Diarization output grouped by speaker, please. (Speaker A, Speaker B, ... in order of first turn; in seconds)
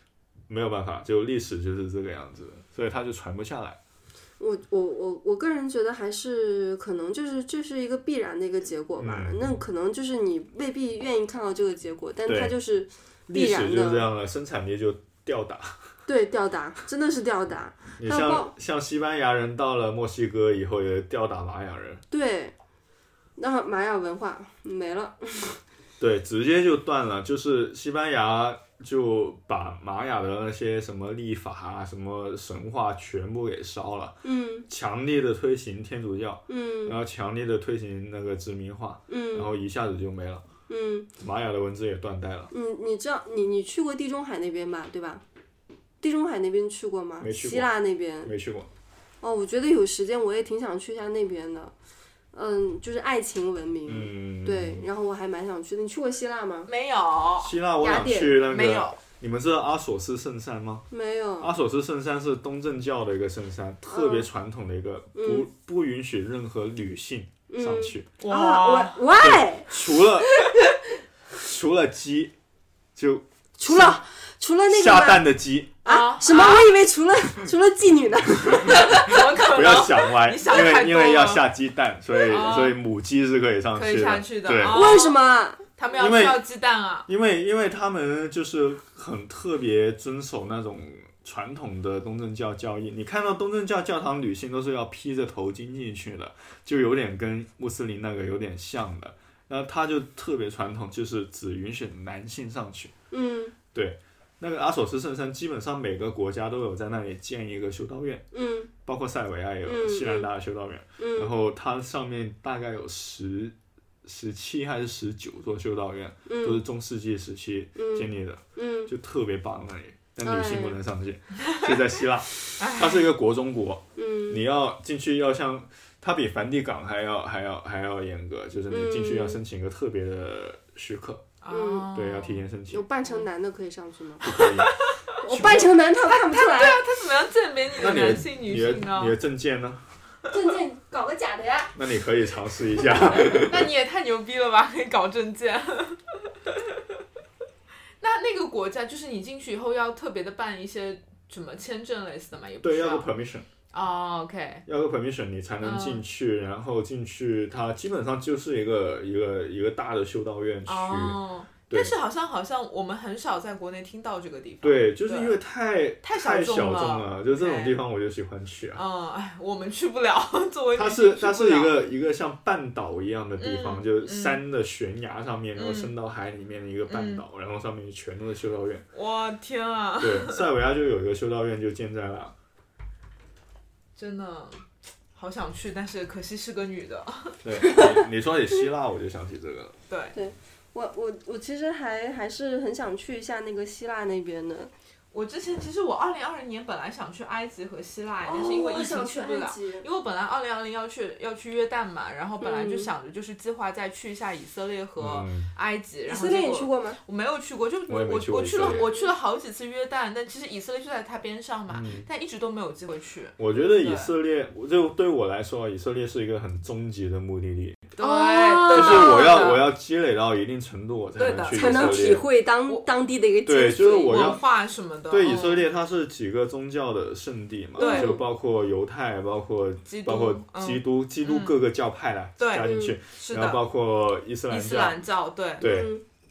Speaker A: 0.5-3.8, 9.0-9.6, 12.3-12.6, 13.3-15.8, 18.0-22.0, 26.0-40.4, 41.2-42.5, 47.2-47.7, 48.2-48.7, 53.9-54.9, 57.4-60.9, 61.4-68.1, 69.2-70.4, 71.3-72.3, 73.0-74.0, 74.7-75.8, 78.5-85.0, 86.0-86.5, 87.1-102.9, 103.7-108.3, 108.8-131.3, 131.9-132.8, 134.2-134.8, 135.3-135.7, 137.8-139.9, 141.8-143.7, 152.6-153.5, 154.7-161.9, 164.6-168.8, 170.8-178.8, 180.0-182.3, 187.4-189.8, 205.0-205.5, 207.9-208.9, 211.7-212.1, 213.4-217.9, 218.7-222.2, 223.4-224.4, 225.1-235.0, 235.6-235.9
Speaker B: 4.4-14.1, 16.1-18.5, 22.1-22.6, 23.4-25.6, 34.2-34.7, 36.5-37.0, 39.1-39.5, 40.7-41.1, 42.5-45.2, 46.0-48.3, 49.2-51.7, 52.3-56.7, 57.8-58.4, 60.9-61.5, 63.9-64.3, 65.2-65.5, 67.5-70.6, 73.6-75.3, 75.8-79.3, 84.7-85.6, 103.1-103.5, 108.3-108.7, 109.7-110.3, 111.0-111.3, 116.3-116.6, 117.8-118.9, 120.2-120.8, 124.0-124.5, 128.7-129.4, 131.5-131.9, 132.7-134.4, 135.2-136.8, 140.3-141.8, 187.6-188.0, 190.1-194.7, 198.2-199.9, 202.4-202.9, 206.1-207.0, 208.6-209.1, 218.0-219.6, 221.5-224.4, 227.8-228.2, 232.6-233.0, 235.6-236.0
Speaker C: 56.7-57.6, 58.5-59.0, 68.2-69.1, 75.8-76.7, 78.6-81.5, 82.2-82.8, 83.7-85.2, 85.8-87.1, 122.6-123.1, 131.4-132.4, 134.3-139.2, 143.3-146.6, 148.0-153.1, 153.7-154.6, 155.6-156.0, 160.7-165.4, 166.0-167.8, 168.8-171.8, 173.4-174.4, 175.6-175.9, 176.9-177.2, 178.9-180.4, 184.0-184.6, 185.2-187.4, 189.9-190.2, 195.1-214.1, 218.0-219.6, 221.2-222.9, 223.8-225.7, 227.8-228.2, 229.9-231.6, 232.4-233.6, 234.5-235.7